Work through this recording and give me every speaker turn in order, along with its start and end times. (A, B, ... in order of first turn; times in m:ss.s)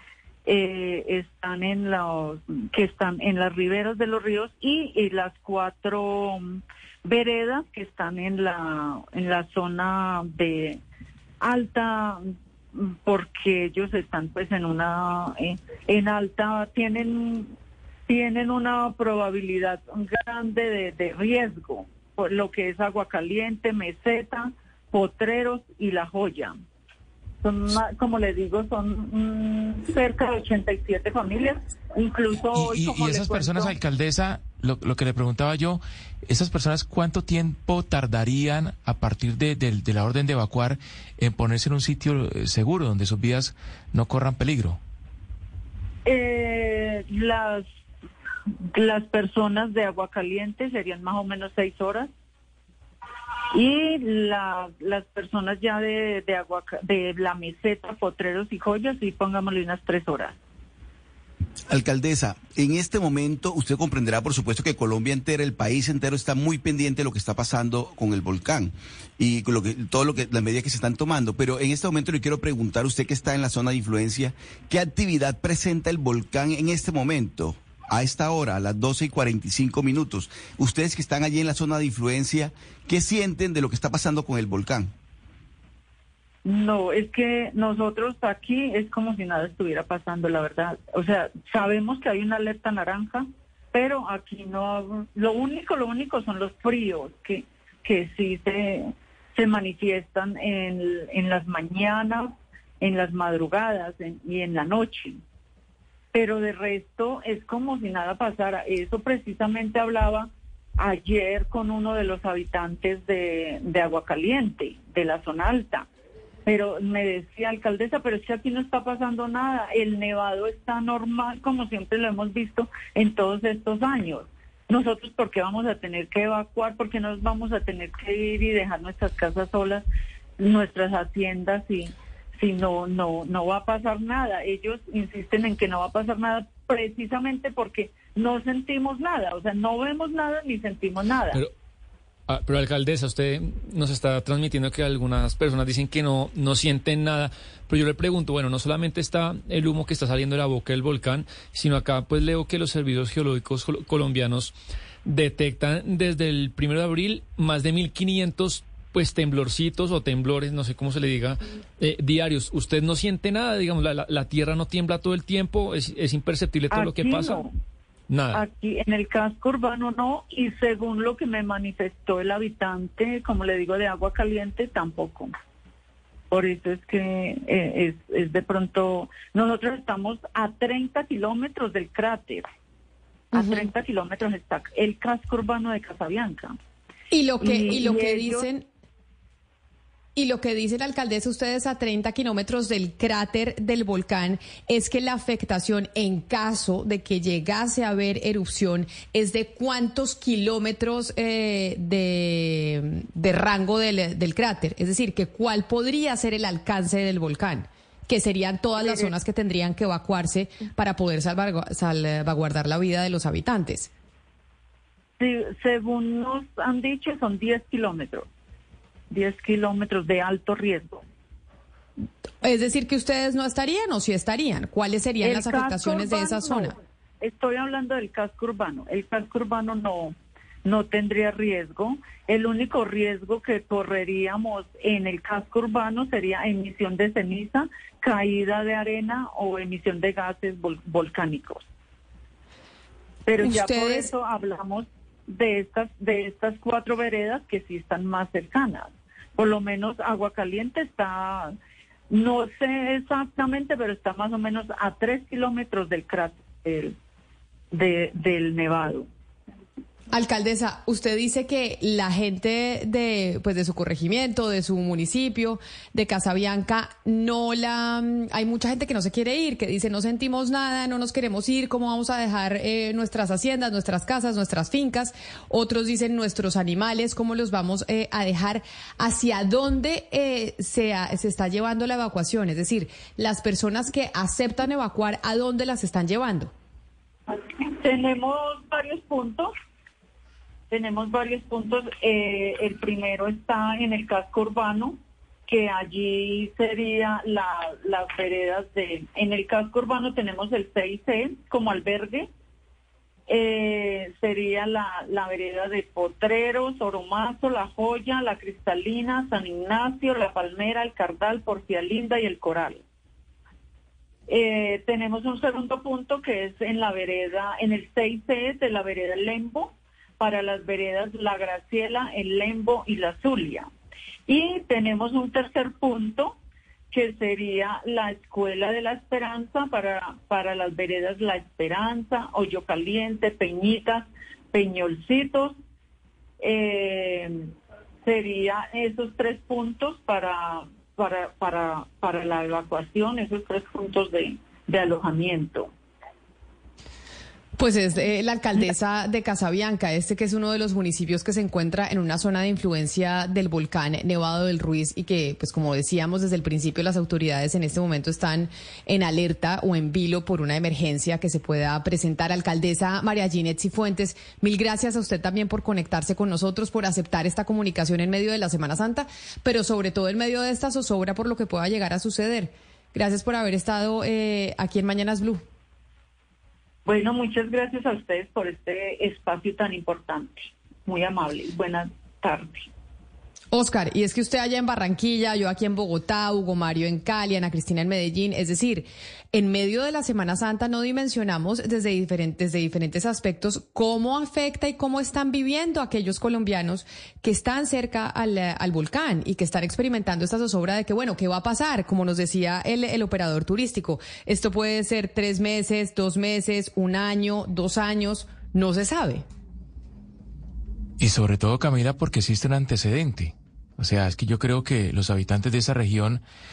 0:00.4-0:10.8 A
0:11.4-0:12.2 A
0:12.7-0:17.5 A
0:18.1-0:26.6 A
0:27.4-0:33.8 A
0:32.5-0:44.8 B
0:46.0-0:47.7 A
0:48.7-0:52.1 A
0:53.5-1:00.4 A
1:01.7-1:24.9 C
1:26.4-1:45.2 A
1:46.1-1:55.9 A
1:56.4-2:09.8 A
2:10.4-2:21.4 A
2:22.3-2:34.5 D
2:35.0-2:47.4 D
2:46.7-2:47.5 A
2:48.1-2:48.4 D
2:48.3-2:55.3 A
2:56.3-3:02.5 A
3:03.3-3:06.6 A
3:03.3-3:03.7 E
3:07.1-3:08.6 E
3:07.4-3:08.5 A
3:10.2-3:33.9 E
3:28.8-3:29.1 A
3:35.2-3:38.3 A
3:39.1-3:41.0 A
3:42.4-3:46.7 E
3:45.2-4:01.6 A
4:03.2-4:11.5 A
4:03.4-4:04.1 E
4:12.1-4:17.0 A
4:17.7-4:19.1 A
4:20.1-4:46.5 E
4:47.3-4:49.5 A
4:50.7-5:02.3 A
5:03.3-5:12.8 A
5:14.3-5:23.7 A
5:24.3-5:26.4 A
5:26.9-5:35.6 A
5:36.4-5:37.5 A
5:38.0-5:45.7 A
5:47.6-6:15.4 E
6:16.8-6:22.7 A
6:23.5-6:49.2 E
6:51.0-6:56.2 B